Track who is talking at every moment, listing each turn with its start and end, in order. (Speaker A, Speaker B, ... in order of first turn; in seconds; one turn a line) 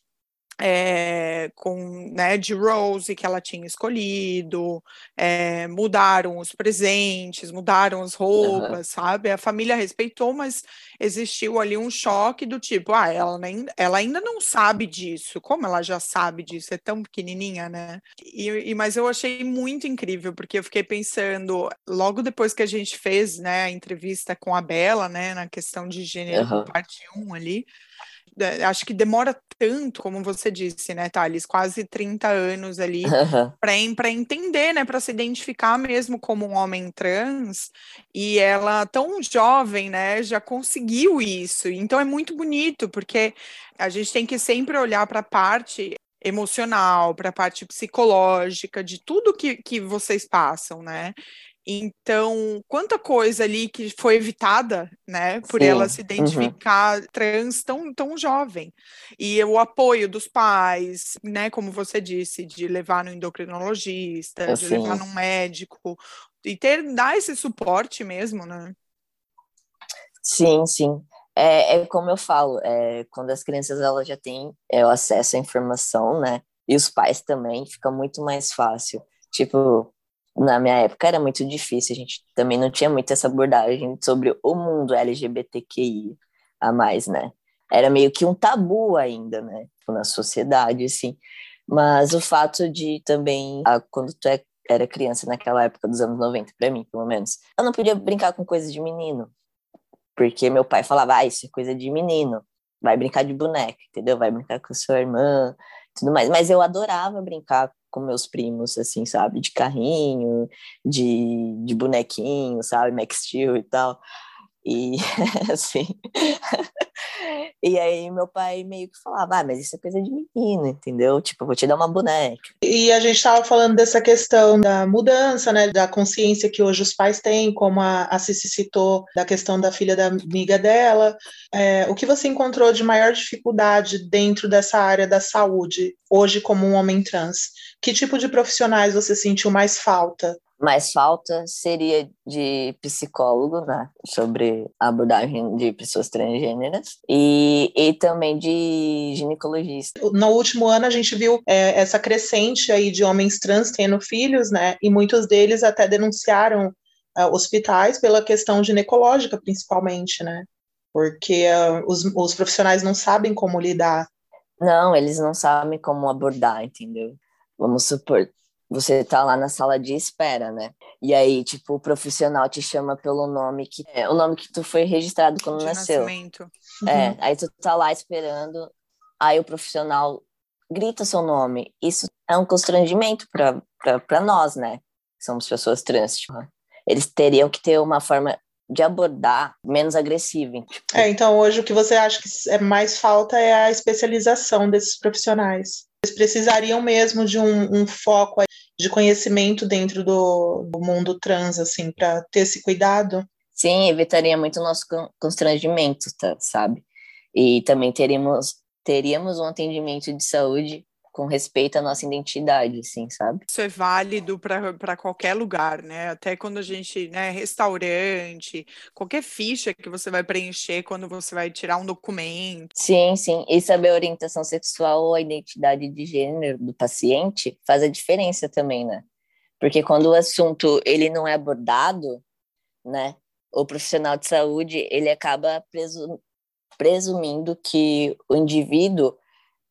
Speaker A: 0.6-27.7
Speaker B: 8.4-8.8
Speaker B: 26.3-26.7
Speaker A: 28.4-51.1
Speaker B: 33.0-33.5
Speaker A: 51.7-68.8
Speaker B: 55.5-56.5
Speaker B: 64.5-65.1
Speaker B: 70.2-99.3
Speaker B: 100.2-114.0
Speaker B: 114.6-116.6
Speaker B: 117.2-122.5
Speaker C: 122.7-140.4
Speaker B: 140.6-149.9
Speaker C: 150.0-164.1
Speaker B: 164.6-176.1
Speaker A: 175.5-176.5
Speaker B: 176.9-191.1
Speaker C: 176.9-177.2
Speaker C: 190.9-203.3
Speaker B: 203.6-213.4
Speaker A: 213.5-222.7
Speaker B: 222.8-229.1
Speaker B: 229.6-232.2
Speaker B: 232.8-236.2
Speaker B: 236.8-239.2